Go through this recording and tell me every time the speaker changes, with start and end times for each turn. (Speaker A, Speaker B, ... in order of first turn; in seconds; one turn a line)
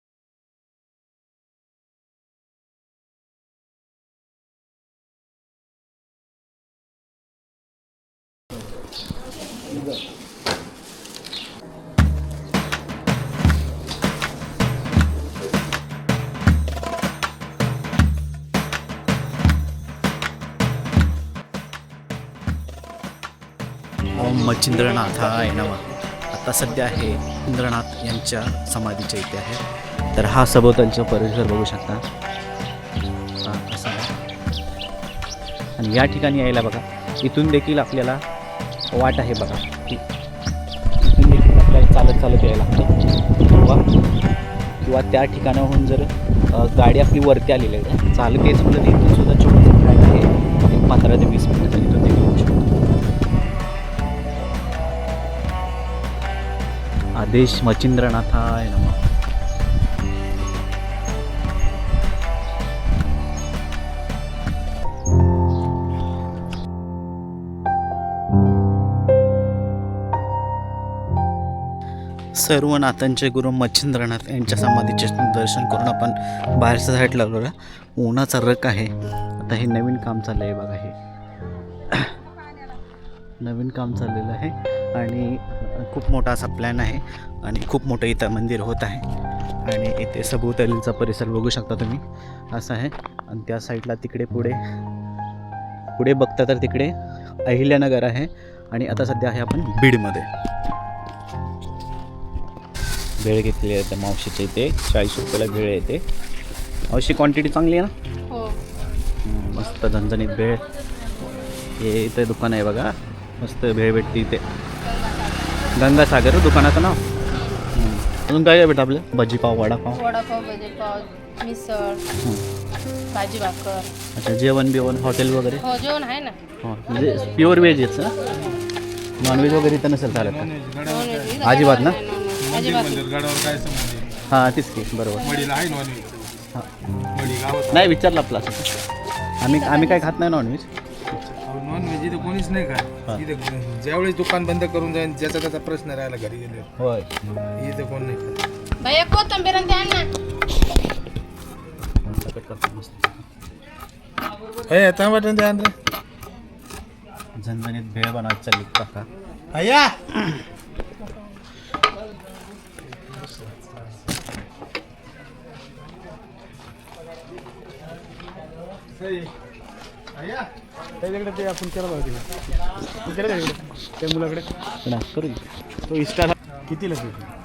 Speaker A: 24.1-29.6
Speaker A: 30.1-32.0
Speaker A: 33.4-34.1
Speaker A: 35.8-38.2
Speaker A: 38.9-40.0
Speaker A: 41.0-43.0
Speaker A: 43.5-43.8
Speaker A: 44.8-52.7
Speaker A: 57.2-59.0
Speaker A: 72.3-81.0
Speaker A: 81.9-82.2
Speaker A: 83.4-89.1
Speaker A: 89.7-94.6
Speaker A: 96.0-100.3
Speaker A: 103.2-106.0
Speaker A: 106.9-107.9
Speaker B: 108.3-108.6
Speaker A: 109.2-110.6
Speaker A: 111.8-114.4
Speaker B: 114.8-115.7
Speaker A: 115.8-117.0
Speaker B: 117.3-117.7
Speaker A: 117.7-120.0
Speaker B: 119.9-122.0
Speaker A: 122.2-122.4
Speaker B: 123.1-123.9
Speaker A: 124.2-125.7
Speaker B: 125.6-126.4
Speaker A: 126.6-128.2
Speaker A: 129.2-130.5
Speaker C: 130.1-131.7
Speaker B: 130.8-133.1
Speaker A: 131.4-132.0
Speaker C: 132.4-134.2
Speaker A: 134.3-135.3
Speaker C: 135.2-136.4
Speaker C: 137.1-137.9
Speaker A: 137.7-138.7
Speaker A: 139.4-140.7
Speaker B: 139.4-140.1
Speaker C: 141.4-146.7
Speaker A: 146.8-147.1
Speaker C: 147.6-148.4
Speaker B: 148.8-150.1
Speaker A: 152.0-153.2
Speaker C: 154.7-155.7
Speaker A: 157.4-159.1
Speaker C: 159.5-160.3
Speaker D: 163.2-163.8
Speaker C: 169.0-169.3
Speaker C: 170.2-170.4
Speaker D: 171.0-172.2
Speaker D: 173.1-174.4
Speaker A: 174.8-176.2
Speaker D: 176.7-177.2